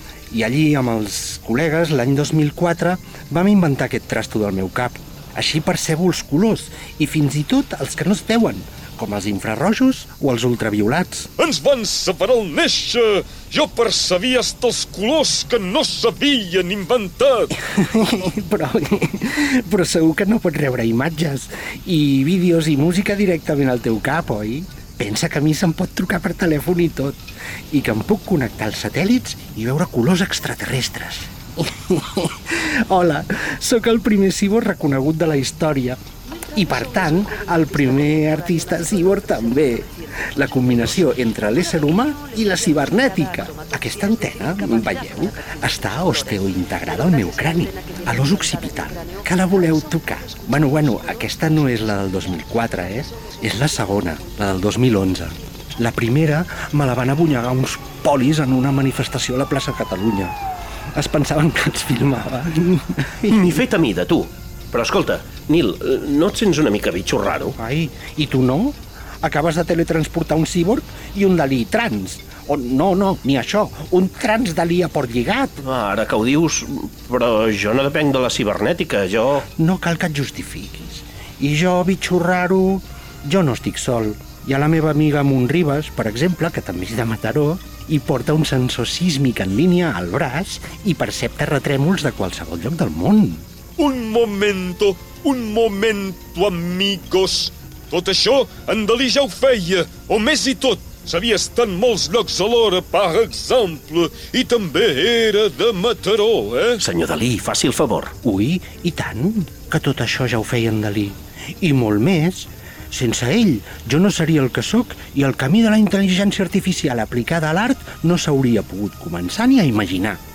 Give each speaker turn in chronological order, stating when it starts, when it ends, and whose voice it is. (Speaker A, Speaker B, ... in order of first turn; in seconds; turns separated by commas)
Speaker A: 0.3-11.3, Speaker B: 11.4-17.5, Speaker A: 17.6-27.2, Speaker A: 27.7-36.0, Speaker A: 36.5-60.3, Speaker A: 60.9-63.6, Speaker C: 63.3-67.6, Speaker A: 67.6-75.5, Speaker C: 75.6-79.5, Speaker A: 79.5-93.4, Speaker B: 93.8-106.8, Speaker C: 106.8-108.1, Speaker A: 108.2-120.2